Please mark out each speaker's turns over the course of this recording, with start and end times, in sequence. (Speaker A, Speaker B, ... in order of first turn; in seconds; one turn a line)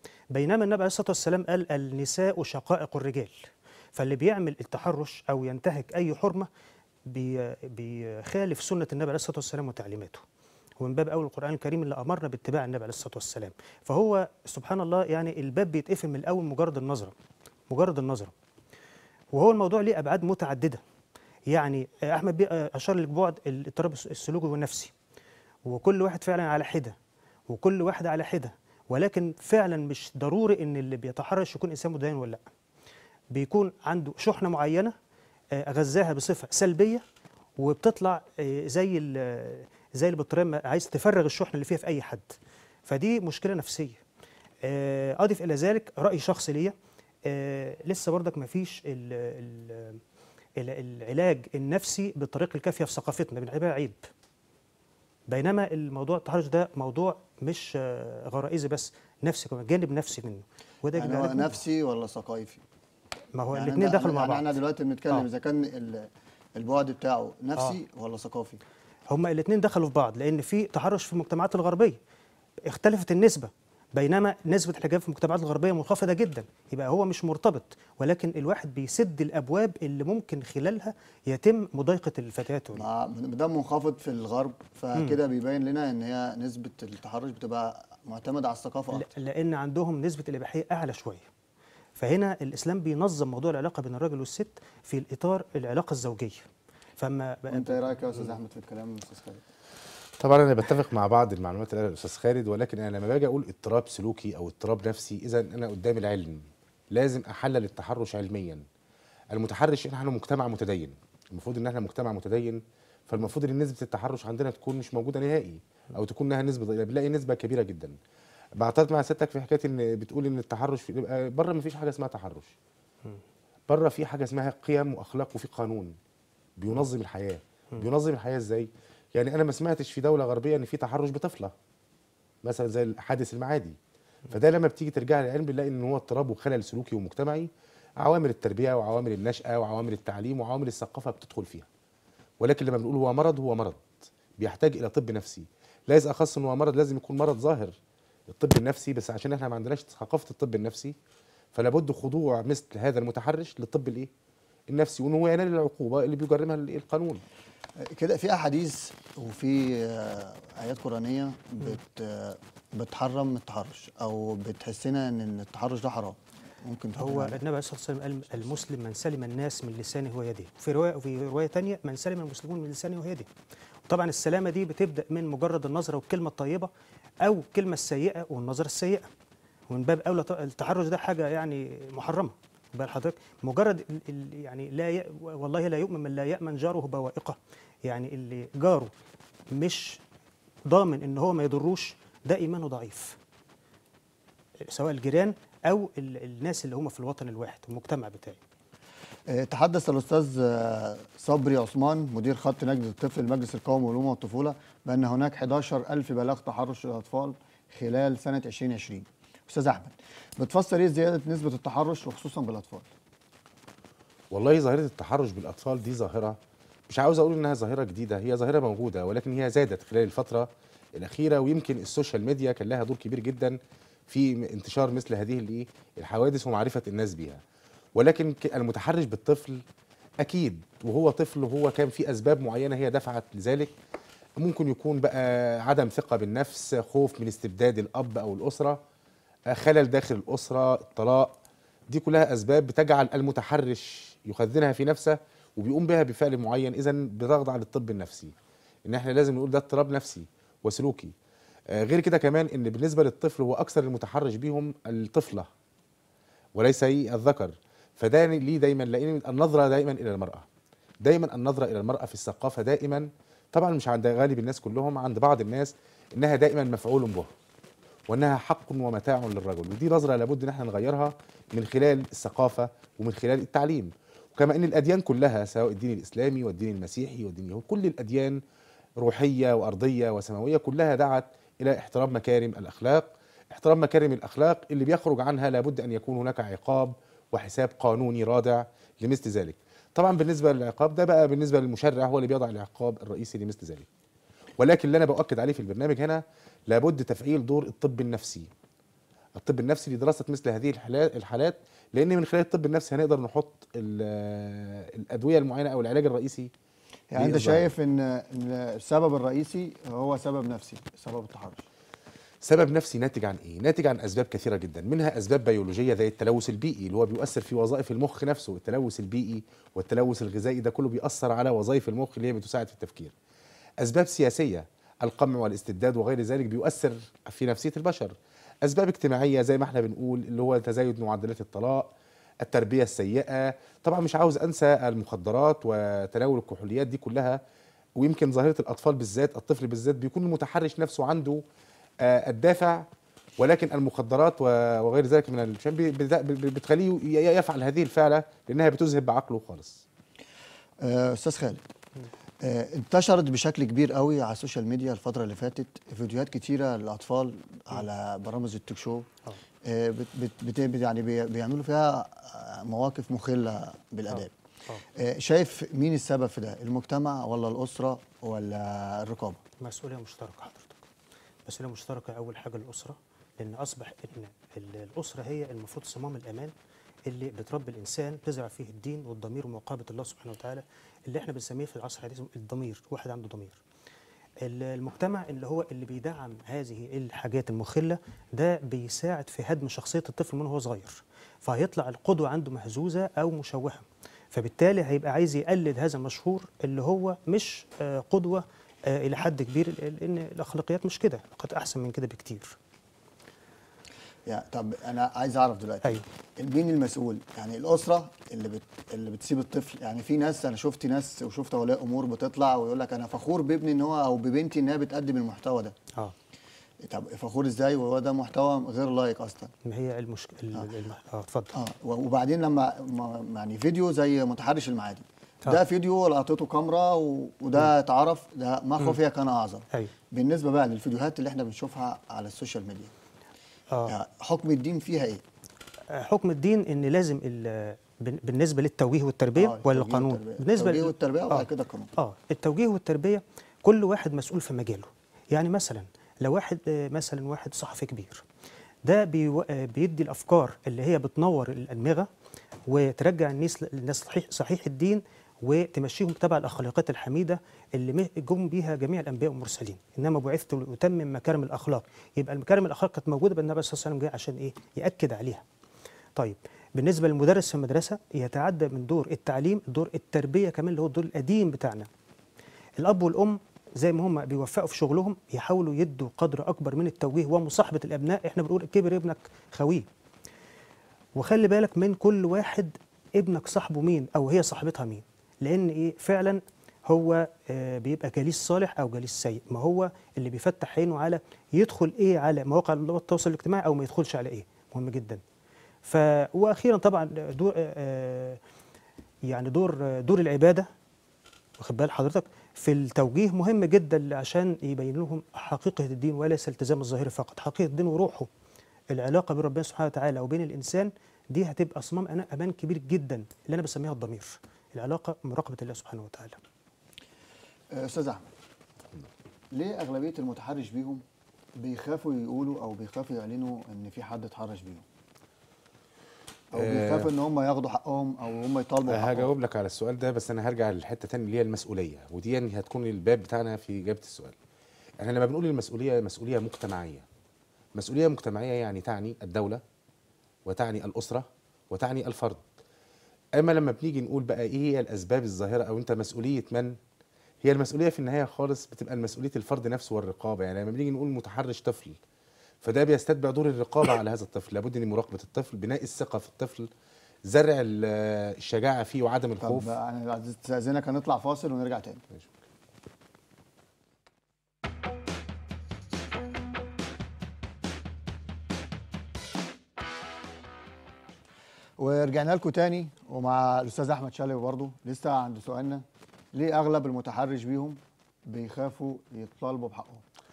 Speaker A: 0.3-6.5
Speaker A: 7.0-10.2
Speaker A: 10.8-17.1
Speaker A: 17.7-18.3
Speaker A: 19.3-20.8
Speaker A: 21.5-24.9
Speaker A: 25.6-26.9
Speaker A: 27.5-32.4
Speaker A: 33.3-34.9
Speaker A: 35.6-37.0
Speaker A: 37.6-42.3
Speaker A: 42.9-44.0
Speaker A: 44.6-46.7
Speaker A: 47.2-50.0
Speaker A: 50.6-54.0
Speaker A: 55.3-61.6
Speaker B: 60.9-62.6
Speaker A: 63.3-64.5
Speaker B: 63.5-68.6
Speaker A: 69.1-72.0
Speaker A: 72.7-82.8
Speaker B: 82.7-89.1
Speaker A: 88.9-91.3
Speaker A: 92.0-96.5
Speaker A: 97.0-98.3
Speaker B: 97.5-99.4
Speaker C: 100.2-108.6
Speaker C: 109.3-118.0
Speaker C: 118.6-122.5
Speaker C: 123.7-125.9
Speaker C: 126.6-131.5
Speaker C: 132.4-133.8
Speaker C: 134.3-141.7
Speaker C: 142.4-147.8
Speaker C: 148.3-150.9
Speaker C: 151.5-154.1
Speaker C: 154.7-157.2
Speaker B: 157.8-167.4
Speaker A: 167.0-173.3
Speaker A: 173.9-176.7
Speaker A: 177.2-179.1
Speaker A: 179.7-188.9
Speaker A: 189.5-190.0
Speaker A: 190.7-193.2
Speaker A: 194.7-198.4
Speaker B: 199.3-212.9
Speaker C: 214.3-216.4
Speaker C: 216.9-223.6
Speaker C: 224.1-227.4
Speaker C: 227.9-229.6
Speaker C: 230.2-233.7
Speaker C: 234.4-238.8
Speaker C: 239.5-241.3
Speaker C: 241.9-248.3
Speaker C: 248.8-251.1
Speaker C: 251.7-255.5
Speaker C: 256.6-260.4
Speaker C: 261.0-267.3
Speaker C: 268.1-278.4
Speaker C: 279.0-293.9
Speaker C: 294.6-298.5
Speaker C: 299.4-306.5
Speaker B: 307.1-311.6
Speaker C: 307.1-307.7
Speaker C: 312.4-323.1
Speaker C: 323.8-331.9
Speaker C: 332.4-337.4
Speaker C: 338.0-341.4
Speaker C: 342.0-342.8
Speaker C: 343.4-349.8
Speaker B: 350.8-351.6
Speaker B: 352.4-359.1
Speaker B: 359.6-364.3
Speaker A: 364.1-364.8
Speaker B: 364.9-369.4
Speaker A: 369.6-370.8
Speaker A: 371.4-376.5
Speaker A: 377.1-383.6
Speaker A: 384.4-402.6
Speaker B: 404.2-415.7
Speaker B: 416.8-419.5
Speaker A: 419.6-421.5
Speaker B: 421.5-432.9
Speaker B: 433.9-435.2
Speaker A: 435.9-448.2
Speaker B: 439.4-441.9
Speaker A: 448.8-452.1
Speaker A: 452.7-465.4
Speaker A: 466.1-471.9
Speaker A: 472.8-479.9
Speaker A: 481.1-495.2
Speaker A: 495.8-498.4
Speaker A: 499.3-500.7
Speaker A: 501.6-508.3
Speaker A: 508.9-516.4
Speaker B: 517.7-518.2
Speaker B: 519.5-521.0
Speaker B: 521.5-524.8
Speaker B: 526.5-529.3
Speaker C: 526.5-527.1
Speaker C: 528.9-534.3
Speaker C: 535.0-537.0
Speaker C: 537.8-539.6
Speaker C: 540.5-542.4
Speaker C: 543.4-546.7
Speaker C: 547.4-552.0
Speaker C: 552.6-556.7
Speaker C: 557.3-559.8
Speaker B: 559.4-562.0
Speaker B: 571.8-580.0